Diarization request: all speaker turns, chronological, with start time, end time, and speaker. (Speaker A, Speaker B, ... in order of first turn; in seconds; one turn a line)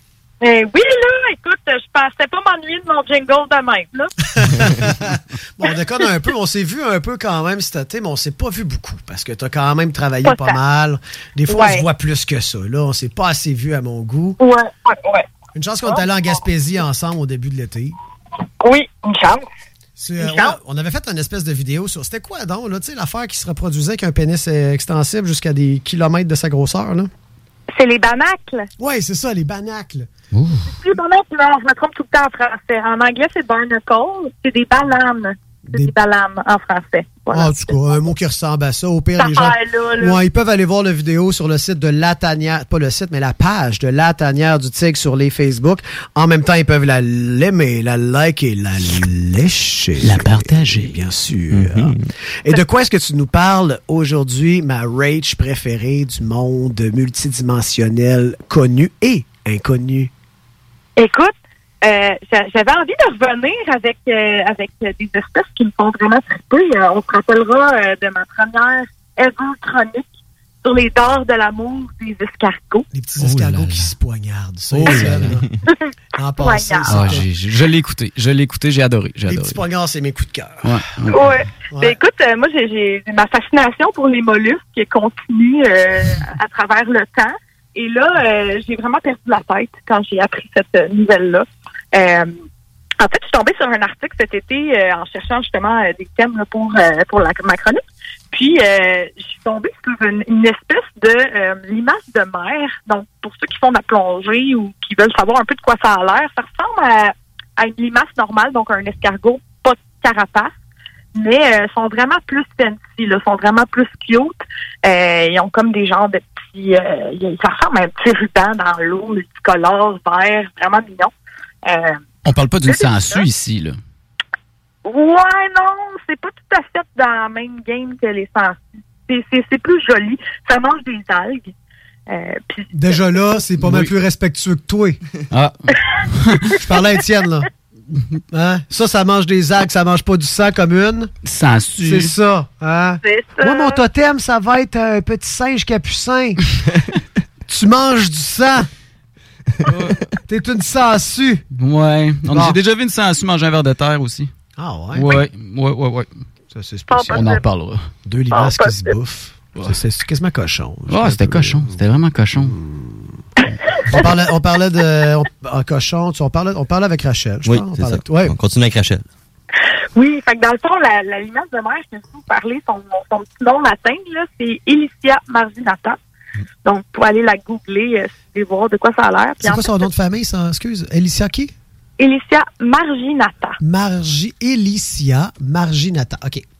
Speaker A: 0.4-4.1
Speaker B: 4.4-14.4
Speaker A: 10.2-10.6
Speaker A: 11.5-11.9
Speaker A: 14.4-15.3
Speaker B: 15.6-18.0
Speaker A: 18.6-19.5
Speaker B: 20.0-27.1
Speaker A: 20.2-20.6
Speaker A: 27.7-28.7
Speaker B: 28.8-30.1
Speaker C: 30.3-30.7
Speaker A: 30.7-37.7
Speaker B: 35.7-35.9
Speaker B: 37.3-60.1
Speaker A: 39.2-40.2
Speaker C: 50.0-50.9
Speaker D: 51.5-52.0
Speaker A: 61.0-70.1
Speaker A: 70.6-72.9
Speaker B: 72.9-75.5
Speaker C: 73.2-73.9
Speaker C: 74.7-75.3
Speaker A: 75.7-77.1
Speaker B: 76.2-77.3
Speaker C: 76.9-79.6
Speaker B: 79.3-81.1
Speaker C: 80.6-81.3
Speaker A: 81.1-92.3
Speaker B: 81.7-82.0
Speaker A: 93.0-110.5
Speaker A: 111.2-121.1
Speaker A: 121.7-122.0
Speaker C: 122.2-123.8
Speaker A: 122.7-123.2
Speaker A: 124.8-131.5
Speaker A: 132.1-133.0
Speaker B: 132.7-135.0
Speaker C: 133.6-133.9
Speaker C: 135.3-136.5
Speaker B: 136.6-137.5
Speaker B: 138.3-141.1
Speaker C: 141.2-142.1
Speaker B: 141.8-146.4
Speaker A: 143.0-143.8
Speaker B: 147.5-148.7
Speaker C: 149.7-149.9
Speaker B: 150.3-151.4
Speaker C: 151.5-154.3
Speaker B: 152.3-152.6
Speaker B: 154.6-155.2
Speaker C: 154.9-156.1
Speaker B: 156.5-157.4
Speaker A: 156.9-157.4
Speaker C: 157.1-157.8
Speaker B: 158.1-161.8
Speaker A: 158.3-158.9
Speaker C: 160.9-162.5
Speaker B: 162.4-163.2
Speaker B: 163.9-168.3
Speaker D: 167.4-169.1
Speaker A: 169.9-176.0
Speaker A: 176.7-179.9
Speaker B: 179.4-181.5
Speaker A: 182.0-183.6
Speaker B: 183.6-186.4